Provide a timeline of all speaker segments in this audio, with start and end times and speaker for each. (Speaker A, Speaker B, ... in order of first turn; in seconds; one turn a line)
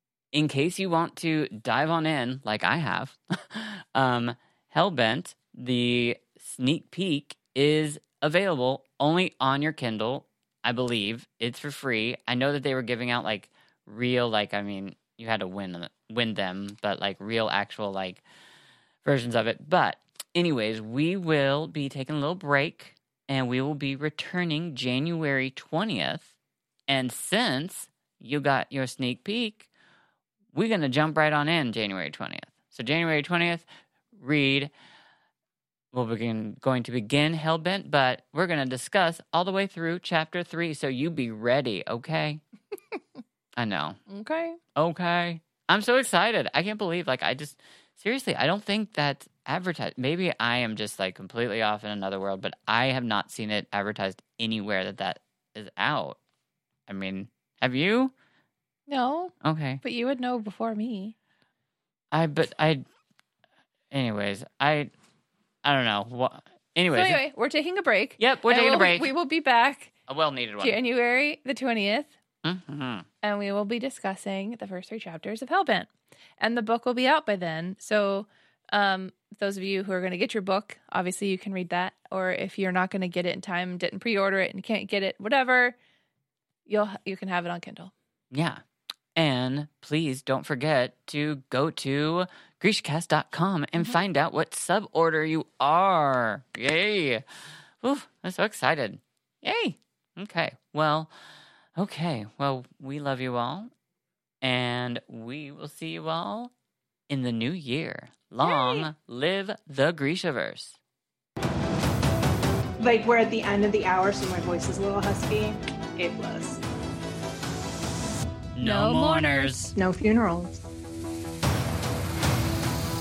Speaker A: 0.3-18.2
Speaker A: 19.0-26.3
Speaker A: 26.9-29.7
Speaker A: 30.5-34.7
Speaker A: 35.9-42.4
Speaker A: 43.6-44.0
Speaker B: 44.1-44.6
Speaker A: 44.8-56.2
Speaker A: 56.9-58.1
Speaker B: 58.9-61.1
Speaker A: 59.4-59.8
Speaker A: 62.1-62.8
Speaker A: 63.9-64.9
Speaker A: 65.6-67.2
Speaker B: 66.9-69.9
Speaker A: 68.2-69.1
Speaker A: 70.1-70.8
Speaker B: 70.6-72.1
Speaker A: 72.4-73.0
Speaker B: 73.2-85.8
Speaker B: 86.7-87.9
Speaker A: 88.3-88.6
Speaker A: 89.1-97.2
Speaker A: 97.8-101.1
Speaker A: 101.8-103.7
Speaker A: 104.4-106.5
Speaker A: 107.1-110.8
Speaker B: 108.4-108.9
Speaker C: 112.8-116.6
Speaker A: 118.5-119.7
Speaker B: 118.6-119.5
Speaker C: 119.8-120.6